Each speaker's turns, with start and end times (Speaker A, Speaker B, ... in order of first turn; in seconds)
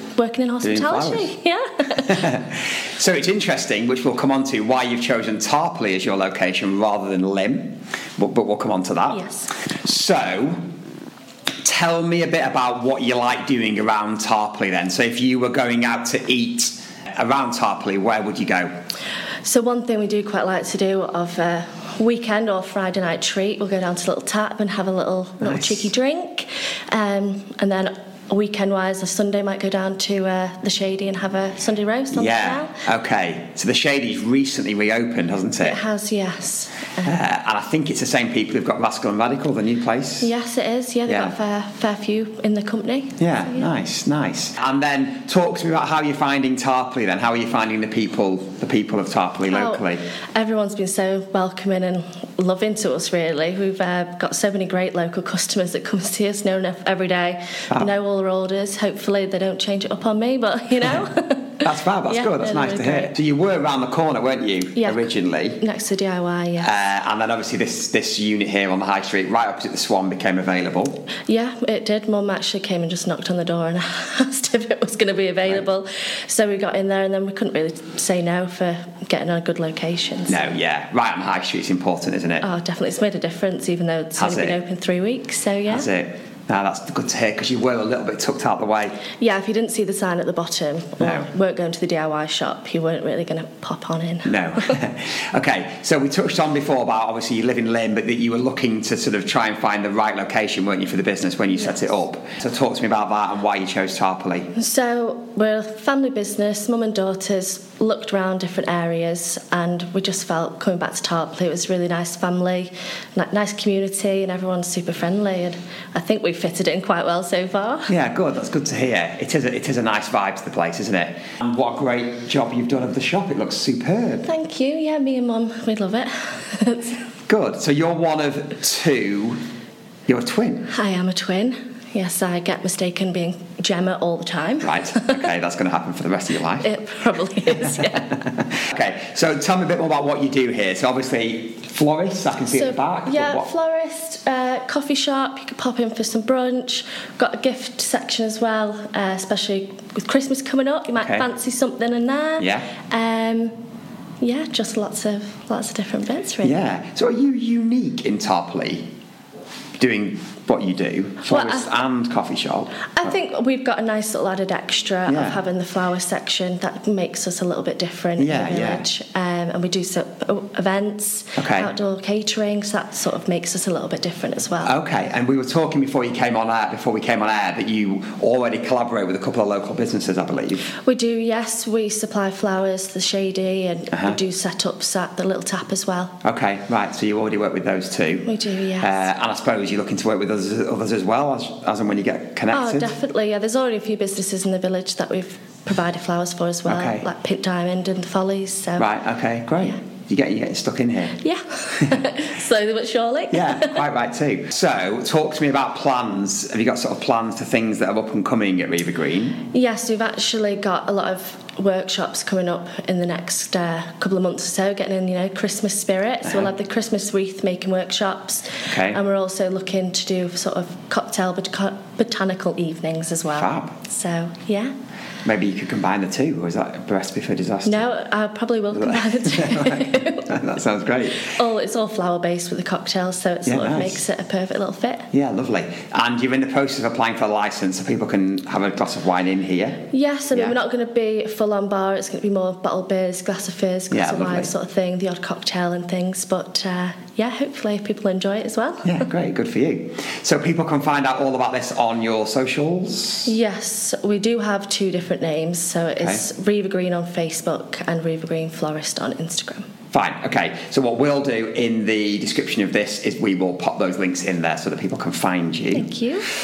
Speaker A: 0.2-2.3, 9.1-9.5, 19.4-32.7, 35.6-37.2, 40.2-43.7, 49.5-63.1, 64.8-65.1, 65.6-66.7, 71.3-80.5, 82.4-85.9, 89.2-94.8, 104.5-117.9, 124.2-127.0, 130.7-135.2, 136.6-138.2, 142.5-153.6, 154.2-156.5, 161.2-161.7, 163.0-174.7, 180.8-186.2, 188.2-189.0, 192.5-198.9, 201.2-203.8, 209.5-224.7, 227.7-230.4, 231.2-235.1, 239.9-249.0, 253.2-259.6, 265.7-266.2
Speaker B: 0.6-1.3, 1.9-10.6, 11.6-18.7, 25.4-25.8, 32.1-35.8, 37.0-40.3, 41.1-41.3, 43.2-50.0, 61.6-65.6, 66.6-71.0, 80.3-82.5, 84.2-84.6, 85.7-89.0, 91.0-91.3, 94.2-104.5, 117.9-124.3, 127.3-129.4, 130.1-130.7, 134.6-136.7, 138.5-143.5, 151.0-151.2, 152.4-152.7, 156.4-158.9, 159.8-162.9, 165.1-165.4, 168.2-168.9, 171.4-171.7, 174.6-180.7, 186.2-192.9, 196.7-197.1, 198.8-201.2, 203.3-209.4, 218.7-219.0, 223.3-223.8, 225.2-227.9, 228.7-231.3, 233.5-234.0, 235.1-240.6, 243.9-244.5, 248.8-253.3, 256.0-256.2, 259.9-265.9